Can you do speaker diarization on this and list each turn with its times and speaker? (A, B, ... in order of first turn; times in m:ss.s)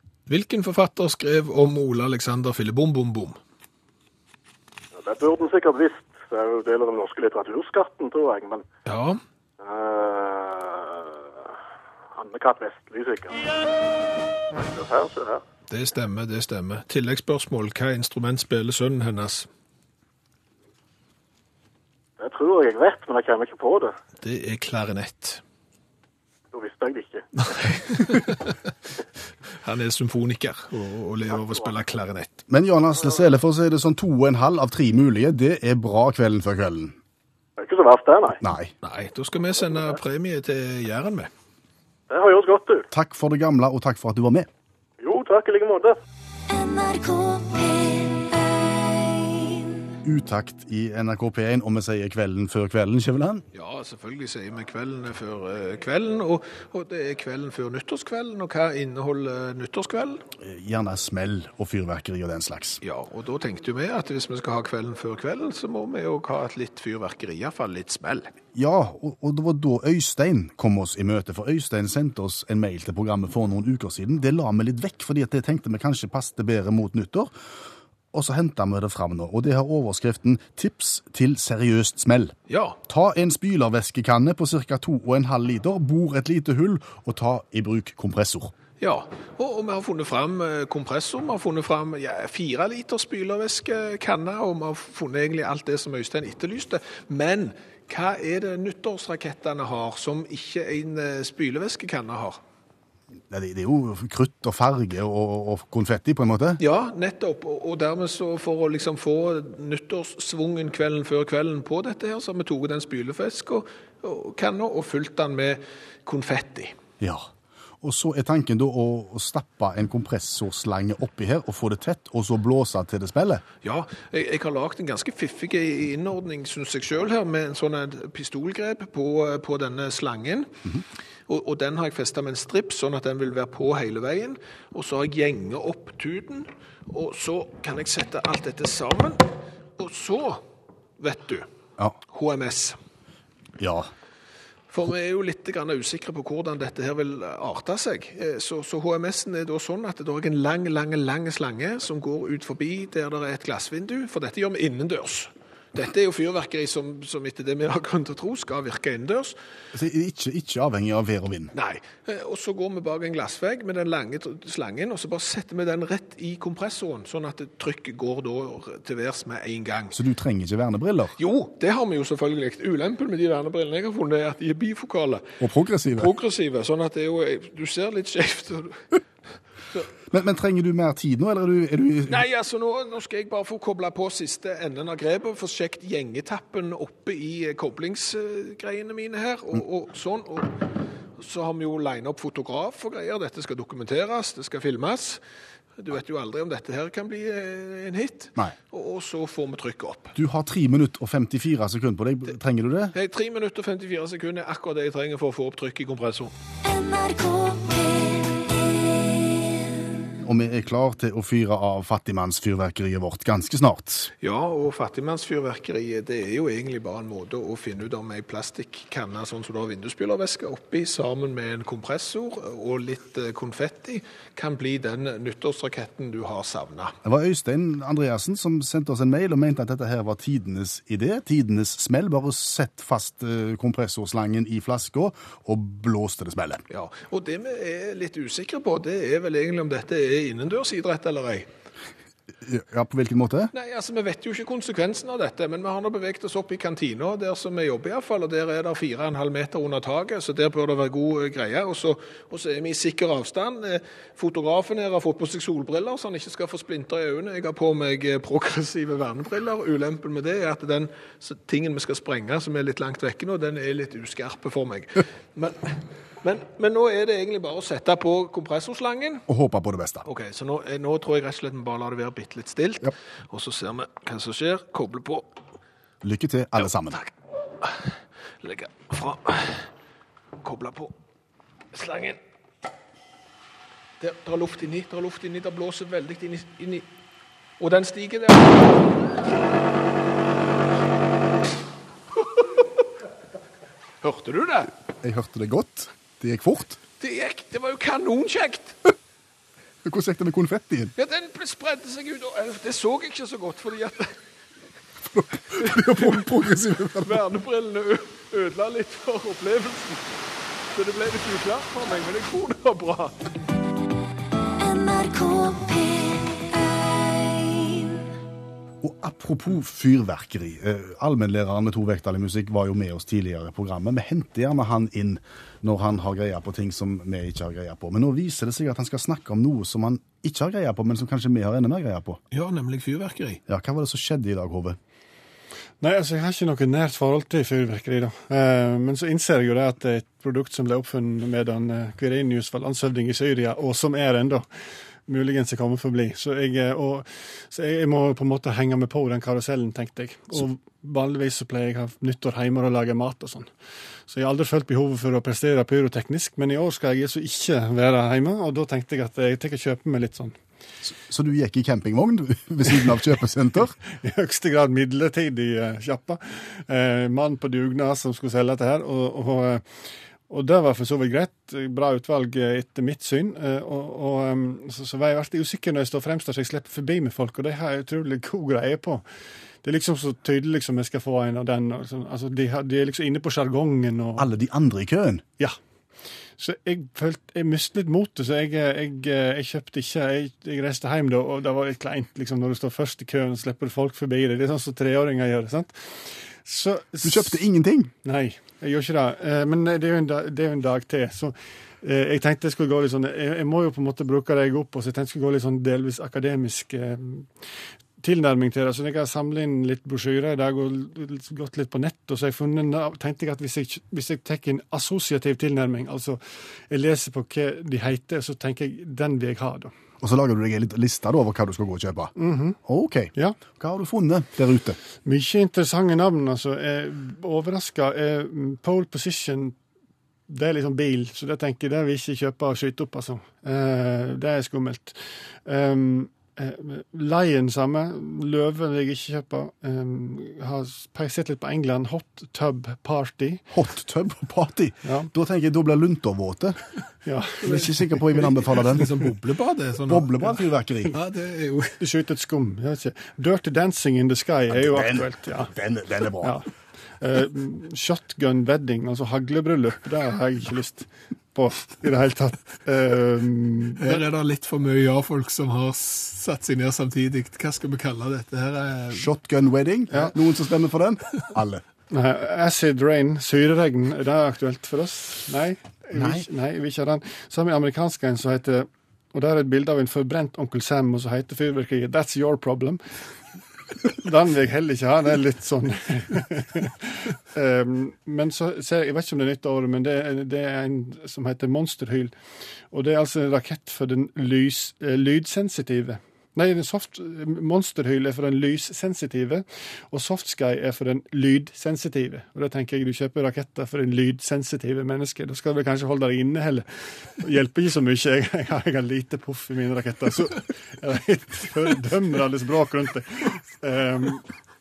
0:00.3-0:03.4 A
0:05.0-0:08.6 B
0:08.9-0:09.2 A
0:09.6-0:11.5 B
0:12.2-0:13.4 B
0:14.5-0:15.4 B
0:15.7-0:19.5 A
0:22.2-0:24.0 B
0:24.2-0:25.4 A
0:26.5-0:27.5 B
0:27.5-0:28.6 A
0:29.6-0:32.4 A
0:31.3-0:31.7 B
0:32.5-0:37.0 C
0:37.6-0:38.4 B
0:38.4-0:38.7 C
0:38.8-0:41.3 A
0:42.1-0:42.9 B
0:42.9-0:44.5 C
0:45.0-0:46.0 B
0:46.5-0:49.9 D
0:50.0-0:53.4 C
0:53.5-1:00.2 A
1:00.4-1:02.8 C
1:02.8-1:08.3 A
1:08.6-1:17.3 C
1:18.1-1:22.4 C
1:22.5-1:22.8 A
1:22.9-1:28.5 C
1:28.8-1:42.4 A
1:43.3-1:46.6 C
1:46.6-1:56.8 A
1:57.0-1:57.3 C
1:57.8-2:03.4 C
2:03.6-2:10.5 A
2:11.3-2:20.4 A
2:21.0-2:21.5 A
2:22.1-2:22.8 A
2:23.6-2:23.9 C
2:24.7-2:39.4 A
2:39.7-2:41.5 C
2:41.5-2:50.0 A
2:49.9-2:51.2 C
2:51.2-2:55.4 A
2:55.4-2:56.1 C
2:55.9-2:58.9 A
3:00.1-3:02.2 C
3:02.1-3:10.6 A
3:11.2-3:15.2 A
3:15.8-3:20.2 A
3:20.2-3:22.9 C
3:22.9-3:26.3 A
3:26.6-3:29.7 D
3:30.2-3:34.1 C
3:34.2-3:47.0 A
3:47.0-3:56.6 C
3:56.7-4:01.5 A
4:02.4-4:03.5 C
4:03.5-4:29.3 A
4:29.3-4:30.1 C
4:30.0-4:35.3 A
4:36.0-4:37.0 C
4:36.6-4:37.1 A
4:37.6-4:39.7 A
4:40.4-4:40.9 A
4:41.7-4:42.2 A
4:44.0-4:46.9 A
4:47.6-4:48.9 A
4:54.0-4:54.7 A
4:55.0-4:56.8 C
4:57.0-4:58.8 A
4:59.8-5:00.9 C
5:01.0-5:04.2 A
5:05.1-5:07.2 C
5:05.6-5:06.3 A
5:07.0-5:10.0 A
5:10.7-5:13.2 A
5:14.5-5:18.1 D
5:18.8-5:32.2 C
5:32.3-5:33.4 A
5:33.5-5:34.8 C
5:35.8-5:44.5 E
5:45.1-5:53.5 E
5:54.1-6:00.4 E
6:00.8-6:03.8 C
6:03.9-6:09.6 E
6:10.3-6:19.0 E
6:19.6-6:24.3 E
6:24.2-6:25.2 C
6:26.4-6:37.4 E
6:37.0-6:37.9 C
6:38.0-6:47.4 E
6:48.0-6:59.7 E
7:00.0-7:02.1 C
7:02.2-7:02.6 E
7:02.6-7:04.8 C
7:05.0-7:09.6 E
7:10.3-7:23.5 E
7:23.5-7:26.6 C
7:24.8-7:25.1 E
7:27.0-7:27.6 E
7:27.4-7:29.2 C
7:27.4-7:31.8 A
7:29.9-7:31.0 C
7:31.8-7:35.5 E
7:34.5-7:36.4 C
7:36.2-7:36.5 E
7:37.0-7:44.0 E
7:43.8-7:49.1 A
7:48.9-7:51.6 C
7:51.9-8:02.9 E
7:55.9-7:56.3 C
8:03.9-8:12.1 E
8:12.7-8:34.2 E